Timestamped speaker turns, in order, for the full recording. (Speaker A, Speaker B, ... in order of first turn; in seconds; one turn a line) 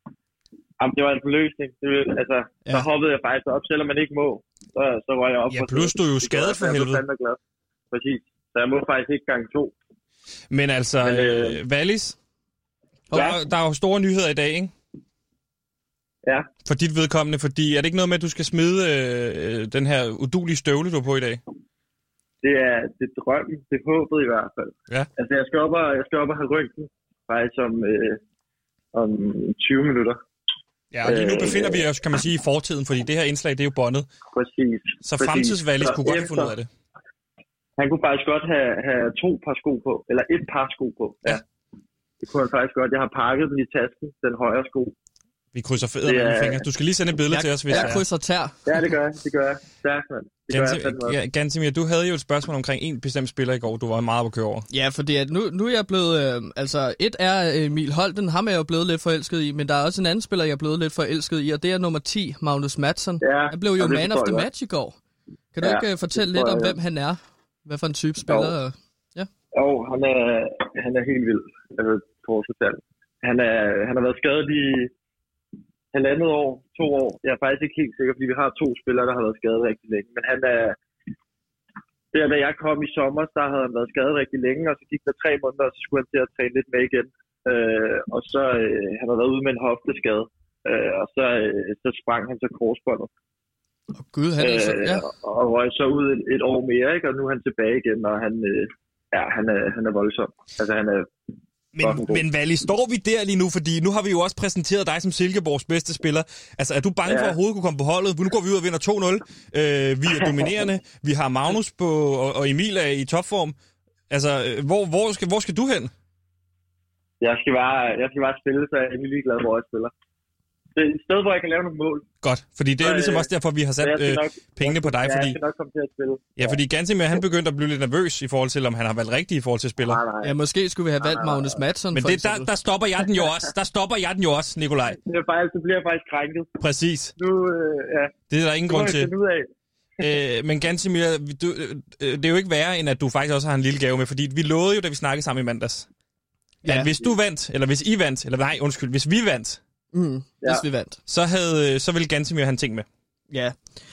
Speaker A: 0.8-7.4
Speaker B: 5.5-7.0
Speaker A: 7.9-9.7
Speaker B: 10.5-12.2
Speaker A: 11.0-11.6
Speaker B: 13.1-14.7
Speaker B: 16.6-21.4
Speaker A: 22.4-28.2
Speaker A: 28.9-30.2
Speaker B: 30.9-34.1
Speaker A: 31.0-31.8
Speaker A: 34.3-36.5
Speaker B: 35.0-36.7
Speaker A: 37.8-41.4
Speaker A: 42.2-44.9
Speaker B: 45.5-48.0
Speaker A: 46.0-46.6
Speaker C: 47.3-48.6
Speaker A: 48.7-51.2
Speaker B: 50.5-54.7
Speaker C: 54.7-65.0
Speaker A: 63.2-64.5
Speaker C: 65.5-69.3
Speaker A: 65.6-66.8
Speaker A: 68.3-68.5
Speaker A: 69.5-74.9
Speaker A: 75.9-80.8
Speaker A: 82.1-93.1
Speaker C: 94.0-95.0
Speaker A: 94.4-101.1
Speaker B: 101.7-113.5
Speaker A: 101.8-102.2
Speaker A: 107.1-107.4
Speaker B: 114.1-115.9
Speaker A: 117.2-119.9
Speaker A: 120.8-122.0
Speaker B: 122.2-125.4
Speaker A: 122.8-123.3
Speaker A: 123.8-126.6
Speaker B: 126.4-130.0
Speaker A: 129.8-130.4
Speaker C: 130.2-132.5
Speaker A: 131.0-131.6
Speaker B: 131.9-135.0
Speaker A: 135.0-136.6
Speaker B: 136.6-137.1
Speaker A: 137.2-138.1
Speaker B: 138.3-139.1
Speaker A: 138.7-139.5
Speaker B: 140.0-145.9
Speaker C: 146.6-146.9
Speaker B: 146.6-149.6
Speaker C: 149.9-151.0
Speaker B: 151.1-152.9